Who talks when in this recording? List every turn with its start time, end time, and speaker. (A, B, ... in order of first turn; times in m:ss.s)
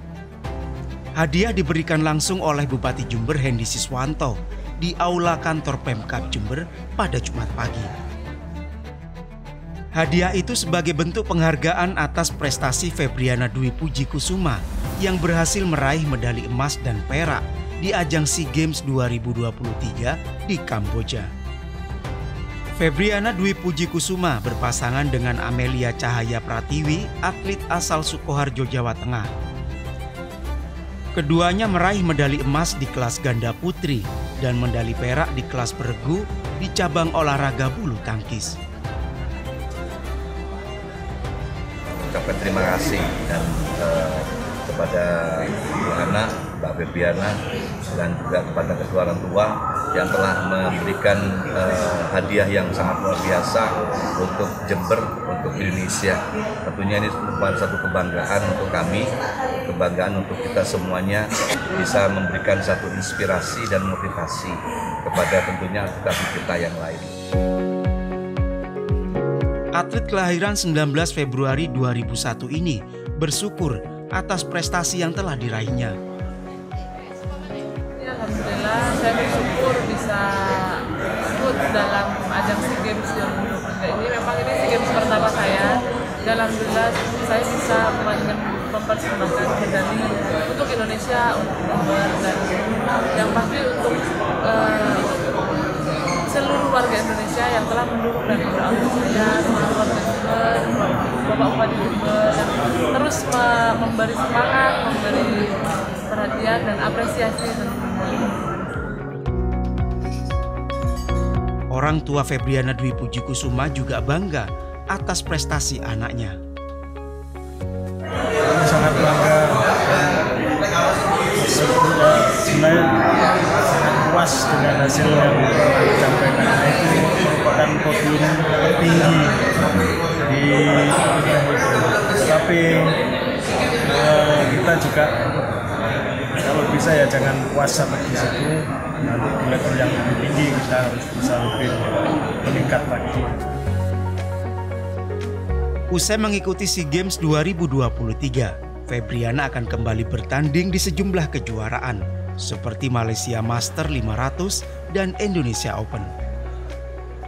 0:01.2-0:07.9 A
0:10.0-0:21.3 A
0:22.8-0:29.3 A
0:31.2-0:38.6 A
0:42.1-0:47.4 B
0:47.9-1:07.1 B
1:09.8-1:16.0 A
1:18.0-1:35.4 C
1:36.3-1:48.3 C
1:51.7-1:56.4 A
1:58.4-2:00.3 D
2:01.4-2:09.4 D
2:10.2-2:13.0 D
2:13.9-2:15.2 D
2:16.4-2:23.5 D
2:25.9-2:36.1 A